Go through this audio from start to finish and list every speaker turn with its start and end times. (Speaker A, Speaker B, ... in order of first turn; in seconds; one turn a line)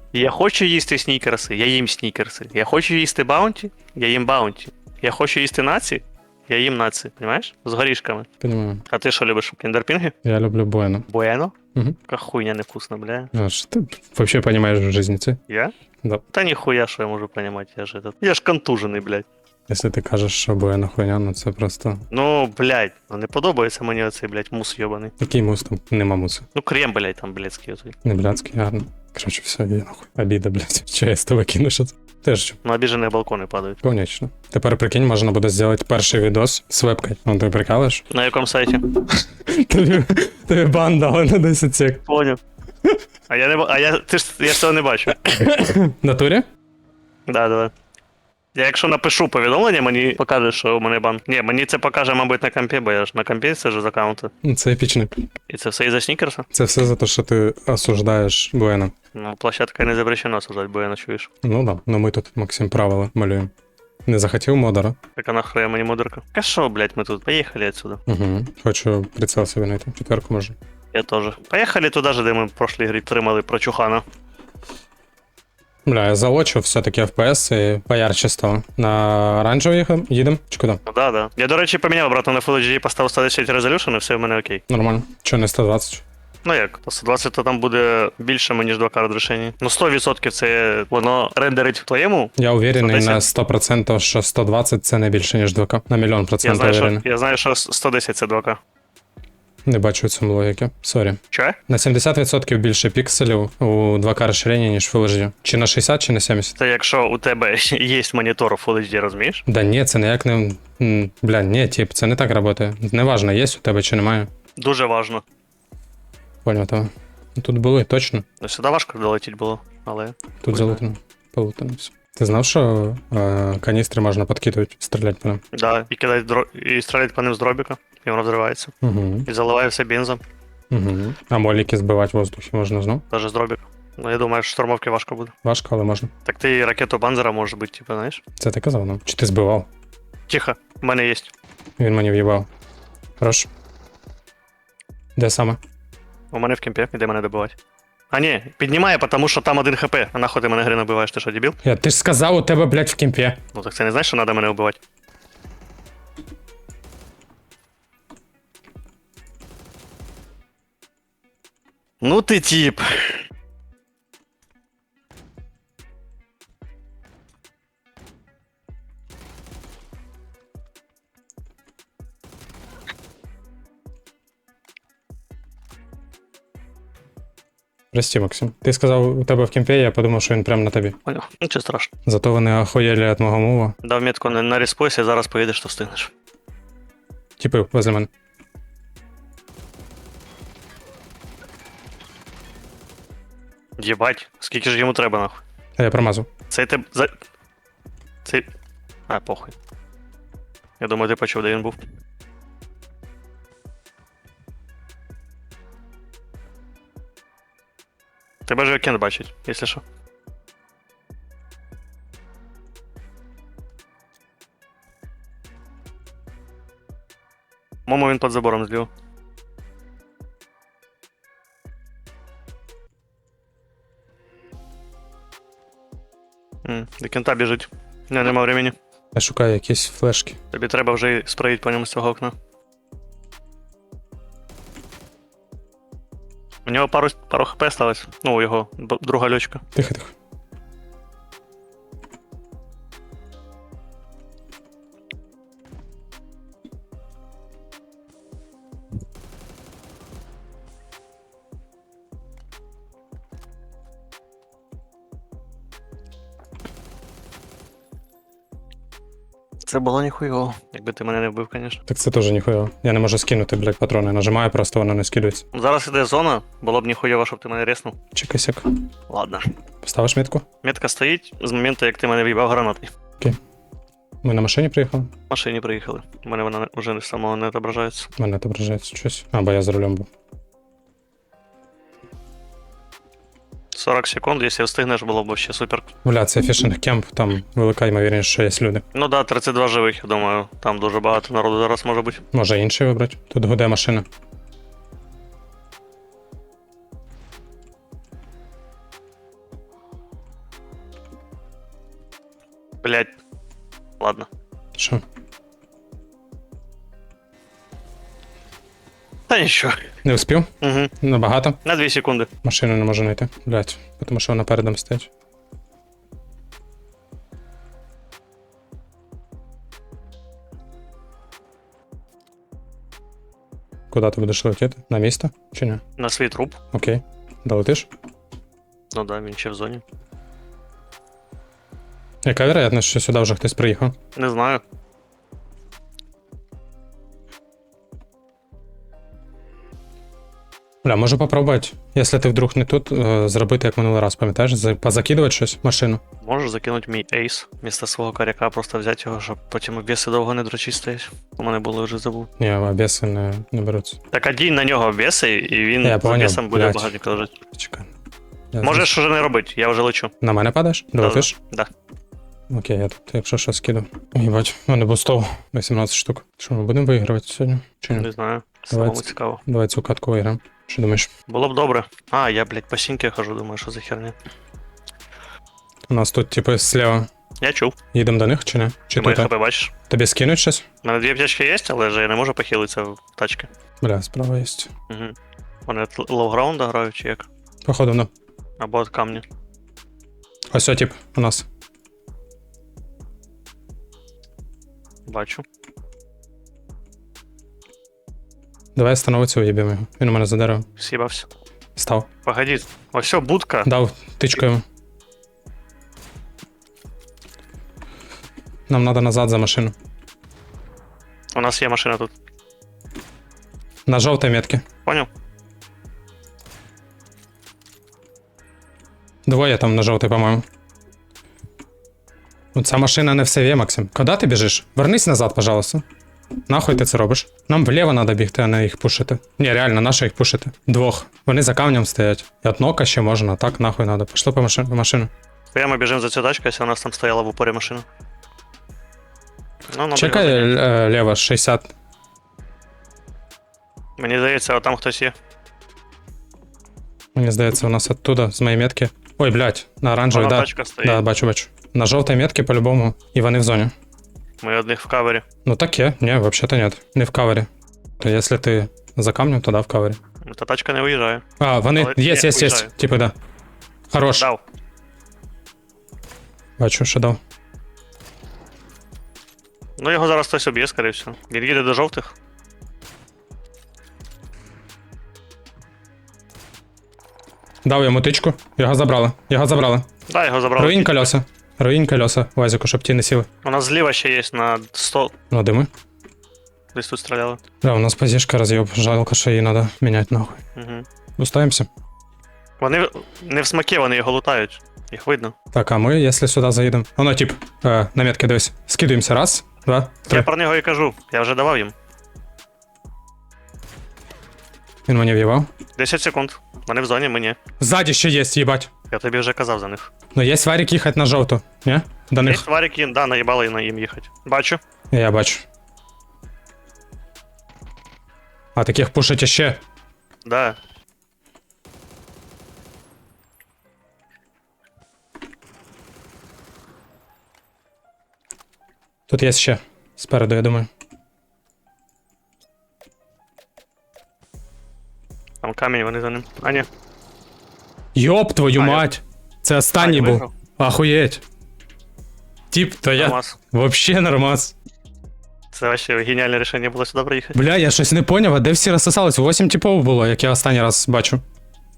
Speaker A: 0.1-8.3
Speaker B: 8.4-8.8
Speaker A: 8.9-10.1
Speaker B: 10.2-11.1
Speaker A: 11.1-11.6
Speaker A: 12.1-13.3
Speaker B: 13.3-15.4
Speaker A: 16.3-19.3
Speaker B: 19.7-22.1
Speaker A: 22.1-25.1
Speaker B: 25.2-26.5
Speaker A: 26.6-27.9
Speaker B: 28.0-32.6
Speaker A: 32.6-33.8
Speaker B: 33.8-38.0
Speaker A: 38.1-38.9
Speaker B: 39.1-42.1
Speaker A: 42.1-42.4
Speaker A: 43.3-45.2
Speaker B: 45.2-46.5
Speaker A: 47.3-47.7
Speaker A: 48.5-54.3
Speaker B: 54.4-55.3
Speaker A: 55.5-56.5
Speaker B: 56.5-58.9
Speaker A: 59.1-61.3
Speaker B: 61.4-63.5
Speaker B: 64.1-65.0
Speaker A: 65.2-68.0
Speaker B: 68.1-70.6
Speaker A: 70.9-74.0
Speaker B: 75.9-80.8
Speaker A: 80.9-84.6
Speaker B: 84.7-86.0
Speaker A: 86.5-93.3
Speaker B: 92.4-97.0
Speaker A: 96.4-98.6
Speaker B: 99.7-106.5
Speaker A: 101.3-101.6
Speaker A: 106.6-109.4
Speaker B: 109.5-114.3
Speaker A: 114.6-115.2
Speaker B: 116.4-118.2
Speaker A: 118.4-120.8
Speaker B: 120.4-125.4
Speaker A: 125.5-128.7
Speaker B: 128.8-129.3
Speaker A: 129.3-130.2
Speaker B: 130.7-133.0
Speaker A: 133.1-135.3
Speaker B: 135.4-136.1
Speaker A: 136.2-138.2
Speaker B: 138.4-139.7
Speaker A: 140.3-141.3
Speaker B: 141.8-142.5
Speaker B: 143.2-143.5
Speaker B: 145.2-145.6
Speaker A: 146.3-147.6
Speaker A: 148.1-151.6
Speaker B: 151.6-153.4
Speaker A: 153.5-154.8
Speaker A: 162.0-163.2
Speaker B: 177.9-181.0
Speaker A: 181.1-181.9
Speaker B: 182.1-183.8
Speaker A: 183.8-186.1
Speaker B: 187.4-188.1
Speaker A: 193.8-195.4
Speaker B: 195.8-196.3
Speaker A: 196.5-197.1
Speaker A: 199.1-199.5
Speaker A: 200.8-201.8
Speaker A: 208.5-209.8
Speaker A: 217.9-218.9
Speaker A: 226.7-228.7
Speaker B: 229.2-230.4
Speaker A: 230.5-232.3
Speaker A: 236.7-239.6
Speaker B: 239.8-240.1
Speaker A: 259.7-261.8
Speaker B: 261.9-265.4
Speaker A: 265.5-267.9
Speaker B: 268.1-268.7
Speaker A: 269.1-269.5
Speaker B: 269.8-270.4
Speaker A: 270.6-272.9
Speaker B: 274.2-275.1
Speaker A: 275.3-278.1
Speaker B: 278.2-280.1
Speaker A: 283.7-285.9
Speaker B: 286.0-288.8
Speaker A: 288.9-292.2
Speaker B: 292.3-294.1
Speaker A: 302.8-303.1
Speaker A: 304.0-304.3
Speaker B: 304.8-305.0
Speaker A: 309.3-309.9
Speaker B: 310.0-311.6
Speaker A: 310.6-310.9
Speaker A: 311.6-312.3
Speaker B: 312.4-315.1
Speaker B: 323.9-325.8
Speaker A: 326.0-326.6
Speaker B: 326.7-327.9
Speaker A: 328.9-329.8
Speaker B: 332.2-334.0
Speaker A: 334.2-334.6
Speaker B: 340.8-346.0
Speaker A: 346.2-352.3
Speaker B: 352.4-354.0
Speaker A: 354.1-357.4
Speaker B: 355.8-356.9
Speaker B: 357.5-357.9
Speaker B: 358.5-358.9
Speaker A: 358.6-360.1
Speaker B: 360.2-361.3
Speaker A: 361.0-361.7
Speaker B: 362.5-368.1
Speaker A: 367.9-369.4
Speaker B: 368.7-371.1
Speaker A: 371.3-374.1
Speaker B: 375.9-377.1
Speaker A: 377.4-377.8
Speaker B: 377.9-379.3
Speaker A: 379.0-379.7
Speaker B: 379.9-380.6
Speaker A: 380.8-383.5
Speaker B: 383.8-384.7
Speaker A: 385.7-387.3
Speaker B: 387.7-388.1
Speaker A: 388.6-389.2
Speaker B: 390.5-391.5
Speaker A: 395.1-395.4
Speaker B: 398.8-400.7
Speaker A: 400.8-401.3
Speaker B: 401.8-402.1
Speaker A: 402.3-403.7
Speaker B: 403.6-404.6
Speaker B: 408.7-409.7
Speaker A: 411.4-412.1
Speaker B: 413.9-414.6
Speaker B: 419.3-420.4
Speaker B: 422.6-425.8
Speaker B: 426.5-435.1
Speaker A: 435.5-437.9
Speaker A: 439.7-440.5
Speaker B: 439.9-441.7
Speaker A: 444.0-445.1
Speaker B: 447.1-453.7
Speaker A: 450.1-451.0
Speaker A: 454.4-455.2
Speaker B: 455.4-457.5
Speaker B: 458.0-460.0
Speaker A: 460.3-461.2
Speaker B: 461.4-463.1
Speaker A: 461.8-462.7
Speaker B: 463.9-464.3
Speaker A: 464.2-464.4
Speaker B: 466.6-467.2
Speaker A: 469.8-472.1
Speaker B: 477.6-479.9
Speaker A: 480.1-481.1
Speaker B: 480.6-483.3
Speaker A: 483.4-485.1
Speaker B: 485.3-485.7
Speaker A: 486.7-487.4
Speaker B: 487.6-490.4
Speaker A: 490.6-490.9
Speaker B: 491.2-491.7
Speaker A: 492.6-495.3
Speaker B: 495.5-500.3
Speaker A: 500.1-501.7
Speaker B: 504.9-505.5
Speaker A: 505.8-507.4
Speaker B: 507.6-508.7
Speaker A: 508.9-509.9
Speaker B: 510.1-512.5
Speaker A: 512.2-514.6
Speaker B: 514.9-515.4
Speaker B: 518.6-519.6
Speaker A: 520.2-520.6
Speaker B: 529.1-530.7
Speaker A: 535.4-536.7
Speaker B: 538.0-541.2
Speaker A: 538.6-538.9
Speaker A: 539.8-540.3
Speaker B: 542.5-544.5
Speaker A: 542.9-543.4
Speaker A: 545.5-547.4
Speaker B: 547.4-551.2